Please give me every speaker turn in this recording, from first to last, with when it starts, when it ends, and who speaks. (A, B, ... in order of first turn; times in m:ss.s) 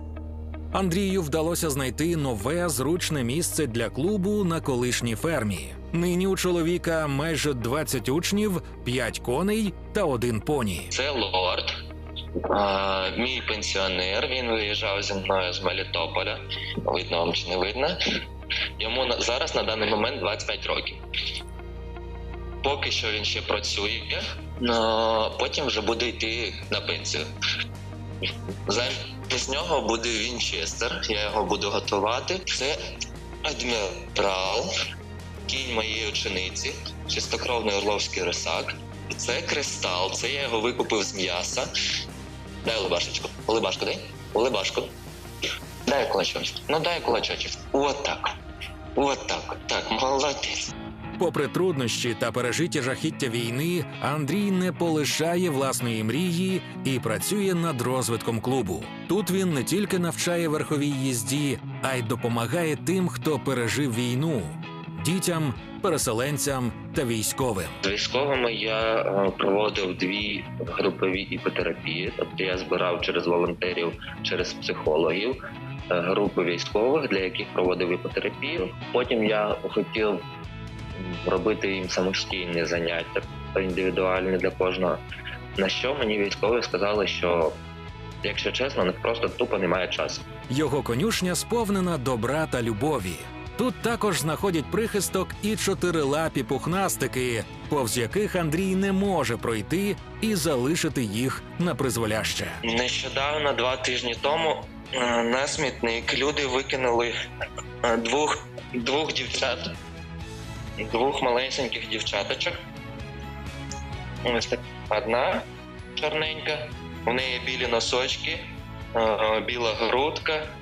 0:00.7-0:10.9 A
0:10.9-0:11.7 B
0:12.5-0:18.0 B
0:18.8-0:21.0 B
0:22.6-0:27.3 B
0:28.7-0:32.8 B
0:33.4-0:34.7 B
0:35.5-0:41.7 B
0:42.6-0:44.9 B
0:45.9-0:48.3 B
0:49.0-0:50.7 B
0:51.2-1:07.8 A
1:07.8-1:15.4 B
1:15.9-1:20.2 B
1:21.0-1:25.0 B
1:25.6-1:27.6 B
1:28.2-1:30.2 B
1:30.5-1:42.6 A
1:42.6-1:47.1 B
1:47.8-1:49.7 B
1:50.8-1:52.6 B
1:54.2-1:55.4 B
1:56.0-2:00.5 B